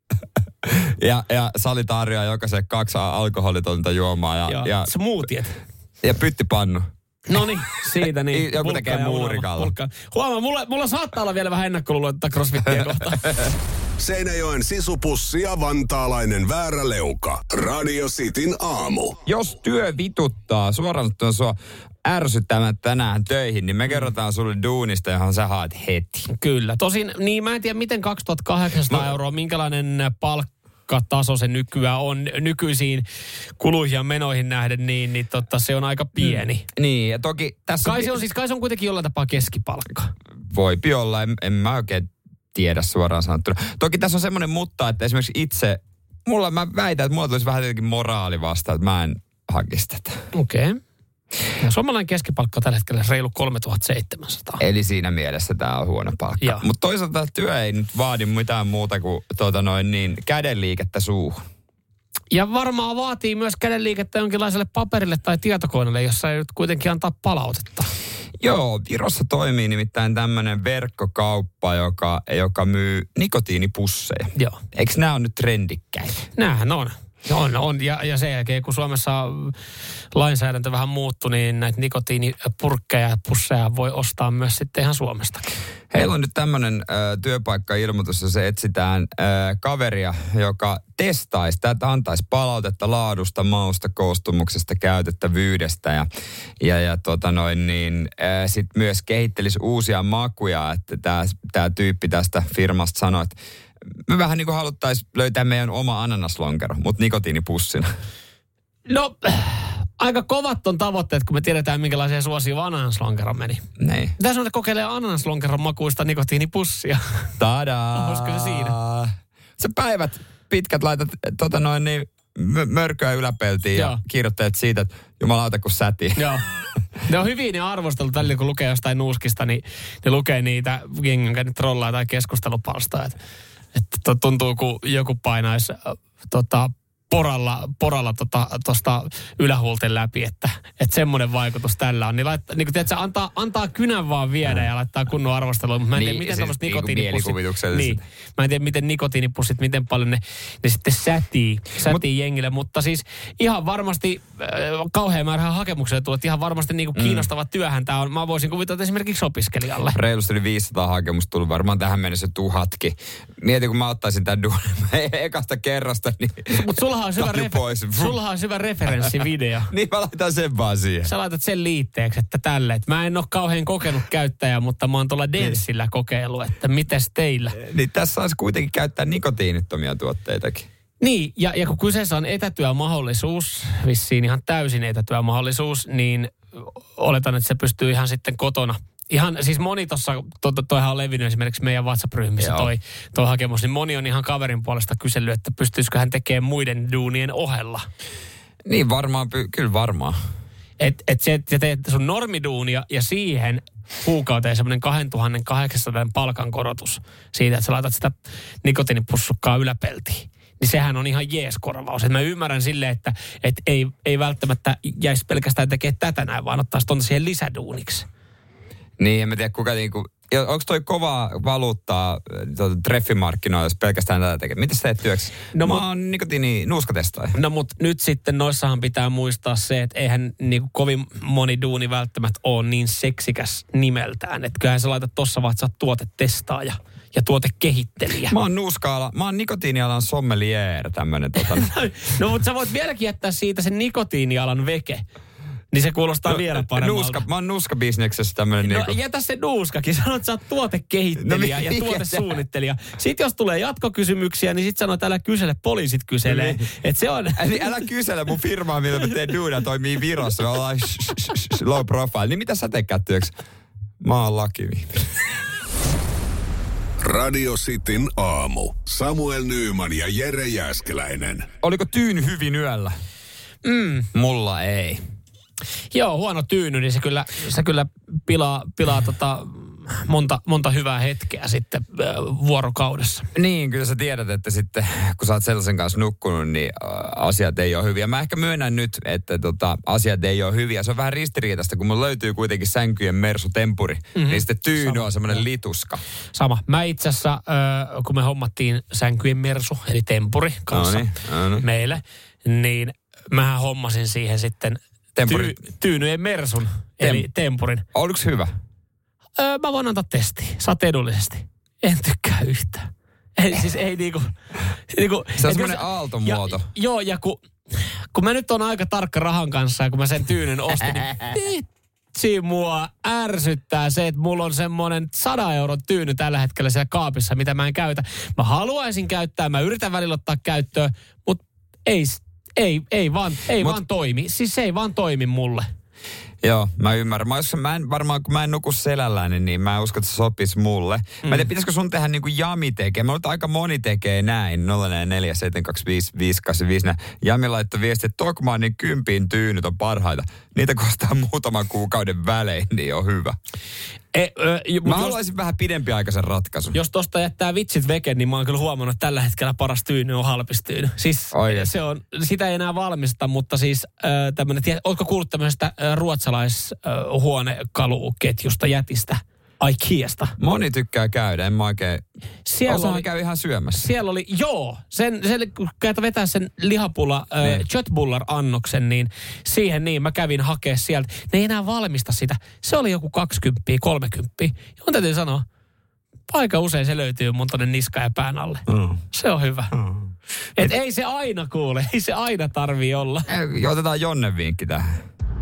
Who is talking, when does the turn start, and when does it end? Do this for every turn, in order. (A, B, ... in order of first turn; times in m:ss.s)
0:00.6-0:04.9 A
0:04.5-0:05.6 B
0:06.0-0:06.9 A
0:07.3-0:13.4 B
0:08.3-0:09.7 A
0:12.7-0:13.5 A
0:14.0-0:19.2 C
0:19.3-0:26.3 A
0:26.3-0:33.1 B
0:33.6-0:36.7 B
0:36.2-0:38.2 A
0:37.8-0:40.1 B
0:40.5-0:50.2 A
0:50.3-0:50.8 B
0:51.6-0:54.6 B
0:54.6-1:01.4 A
1:02.3-1:07.9 B
1:08.4-1:16.2 A
1:16.4-1:19.6 B
1:20.1-1:25.6 B
1:25.9-1:36.1 A
1:36.6-1:43.4 A
1:44.1-1:47.9 A
1:48.9-1:53.6 B
1:53.8-1:54.2 A
1:54.2-1:57.3 B
1:57.4-2:06.4 A
1:58.0-1:58.8 B
2:03.7-2:04.0 B
2:06.2-2:06.5 B
2:07.1-2:13.2 B
2:13.8-2:40.0 B
2:25.9-2:28.0 A
2:37.0-2:37.3 A
2:39.9-2:48.2 A
2:46.5-2:49.7 B
2:48.9-2:51.1 A
2:51.0-2:57.6 B
2:57.5-3:00.7 A
3:01.0-3:17.9 B
3:12.4-3:12.7 A
3:18.7-3:20.2 A
3:20.8-3:38.1 B
3:39.0-3:47.4 A
3:45.5-3:45.8 B
3:47.4-3:58.4 B
3:58.3-4:01.7 A
4:01.5-4:05.0 B
4:05.7-4:07.2 B
4:06.3-4:09.0 A
4:08.6-4:17.4 B
4:11.2-4:12.3 A
4:16.2-4:16.7 A
4:17.4-4:23.4 A
4:24.0-4:25.1 A
4:27.0-4:31.5 C
4:31.6-4:33.0 A
4:33.6-4:34.1 B
4:34.1-4:35.0 A
4:35.9-4:43.3 B
4:43.4-4:56.0 A
4:54.2-4:55.4 B
4:56.3-5:07.8 B
5:00.7-5:01.6 A
5:05.2-5:05.6 A
5:07.0-5:07.3 A
5:07.9-5:08.5 A
5:09.4-5:14.3 B
5:14.9-5:35.7 B
5:15.4-5:16.7 A
5:36.4-5:53.4 A
5:41.2-5:41.5 B
5:54.1-5:55.2 B
5:54.8-5:56.8 A
5:56.7-6:10.4 B
6:01.3-6:01.7 A
6:10.4-6:12.0 A
6:12.5-6:13.1 B
6:12.7-6:13.9 A
6:13.8-6:25.4 B
6:26.3-6:29.7 B
6:28.7-6:29.0 A
6:29.7-6:30.0 A
6:30.6-6:33.3 B
6:33.3-6:35.0 A